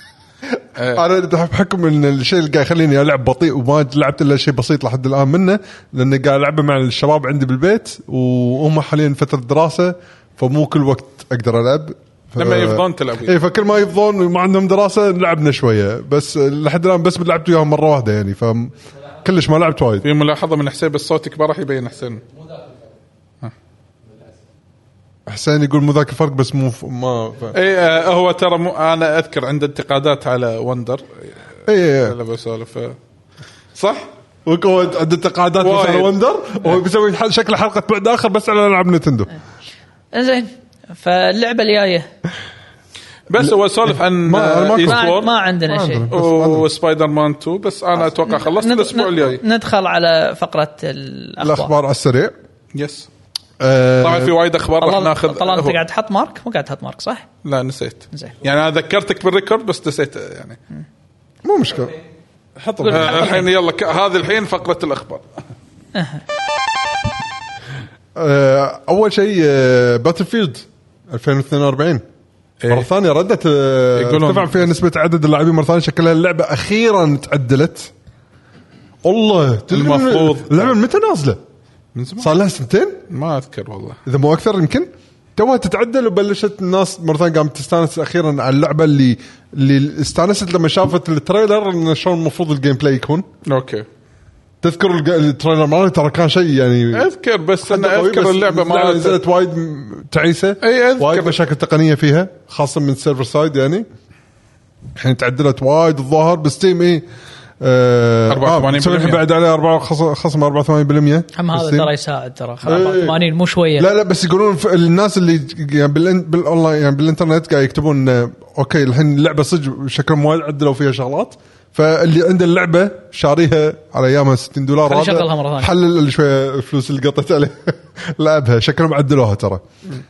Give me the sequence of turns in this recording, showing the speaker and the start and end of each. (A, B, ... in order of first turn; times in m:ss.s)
0:00.8-0:01.0 A
0:00.9-0:20.0 B
0:12.4-0:13.4 A
0:20.0-0:22.2 A
0:25.3-0:27.6 B
0:27.5-0:31.3 A
0:31.7-0:32.2 B
0:32.0-0:33.0 A
0:33.7-0:34.0 A
0:34.4-0:39.3 B
0:35.6-0:36.1 A
0:40.1-0:42.1 C
0:43.3-0:45.3 A
0:43.4-0:45.1 B
0:44.8-0:46.0 C
0:45.7-0:46.7 B
0:46.1-0:49.4 A
0:48.2-0:51.7 C
0:51.4-0:52.3 B
0:52.7-0:53.1 A
0:53.6-0:54.3 B
0:54.0-0:55.8 A
0:54.8-0:57.2 C
0:57.4-1:00.6 A
1:01.4-1:02.0 B
1:02.6-1:03.4 B
1:02.8-1:03.5 C
1:02.9-1:05.3 A
1:08.1-1:12.0 B
1:12.6-1:12.9 A
1:12.7-1:17.9 B
1:14.0-1:14.7 A
1:19.0-1:21.4 B
1:19.7-1:20.8 A
1:21.9-1:22.3 A
1:22.2-1:23.0 B
1:23.1-1:24.0 A
1:24.0-1:33.3 B
1:33.4-1:33.8 A
1:34.6-1:37.1 B
1:36.9-1:39.2 A
1:37.6-1:43.8 B
1:40.6-1:41.3 A
1:45.0-1:47.0 B
1:47.6-1:51.9 B
1:48.3-1:49.2 A
1:51.4-1:53.9 C
1:52.6-1:53.2 B
1:53.8-2:09.6 B
2:04.8-2:05.7 C